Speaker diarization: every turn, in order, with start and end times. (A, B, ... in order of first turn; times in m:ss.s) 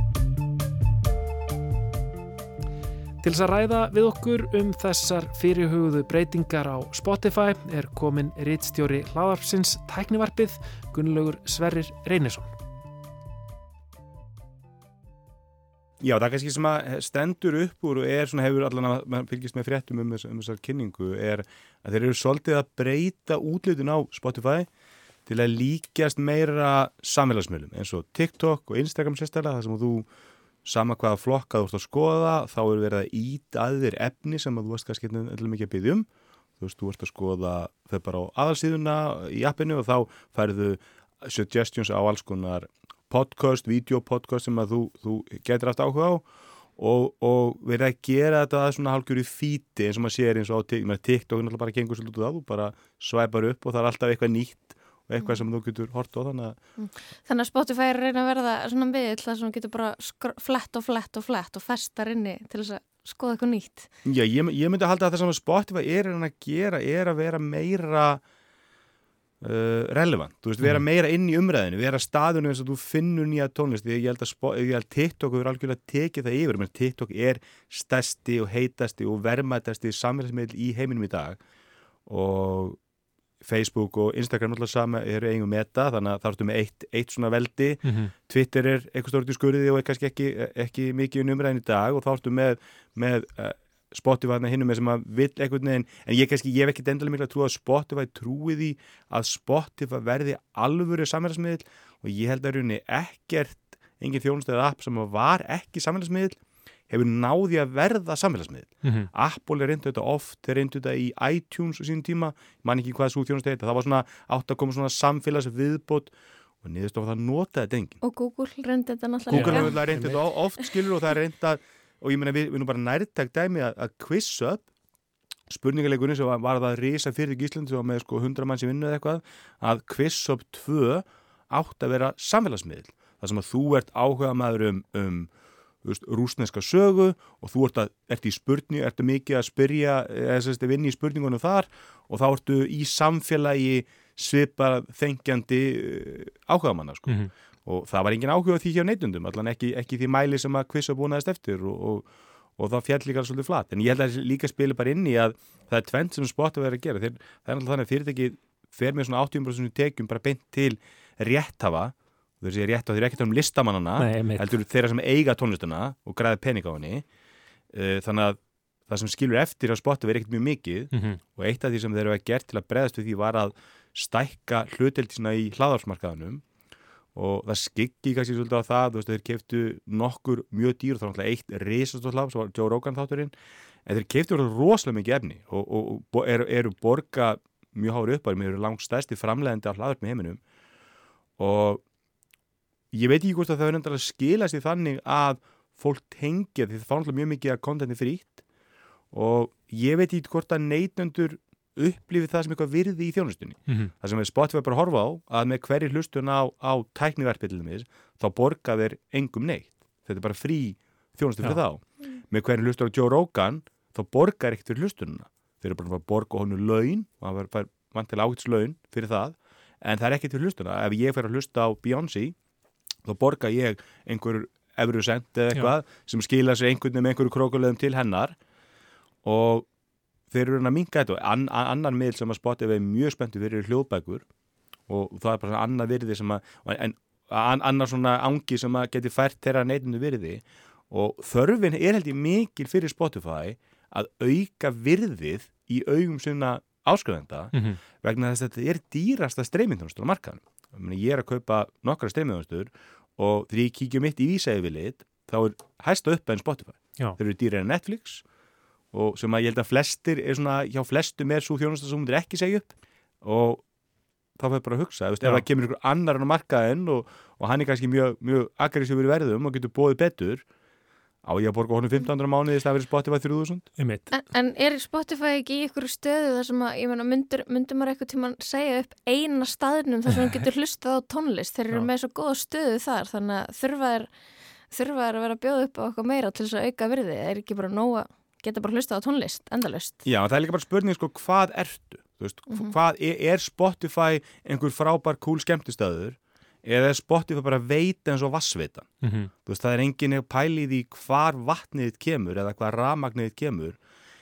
0:03.2-0:12.5 A
0:16.0-0:24.7 B
0:25.3-0:30.1 B
0:30.6-0:36.1 B
0:36.6-0:46.3 B
0:46.8-0:56.6 B
0:56.8-1:03.9 C
1:04.0-1:08.2 B
1:09.4-1:21.4 B
1:22.1-1:22.8 B
1:23.4-1:46.4 B
1:27.8-1:28.1 A
1:46.9-1:58.0 B
1:58.0-1:59.8 C
1:59.3-2:04.7 B
1:59.3-2:00.2 A
2:05.5-2:15.3 B
2:15.8-2:47.0 B
2:44.0-2:44.5 A
2:47.7-2:56.4 B
2:50.9-2:51.2 A
2:57.2-3:03.3 B
3:03.9-3:10.4 B
3:11.4-3:11.8 B
3:12.9-3:18.4 B
3:19.1-3:42.4 B
3:43.0-3:48.4 B
3:49.2-3:49.7 B
3:50.3-3:54.2 B
3:54.9-4:18.2 B
4:07.5-4:07.8 A
4:18.9-4:23.6 B
4:24.4-4:30.4 B
4:31.2-4:33.8 B
4:33.8-4:34.1 A
4:34.1-4:44.1 C
4:44.7-4:50.0 C
4:50.0-5:03.8 B
4:52.5-4:52.8 C
4:59.0-4:59.3 A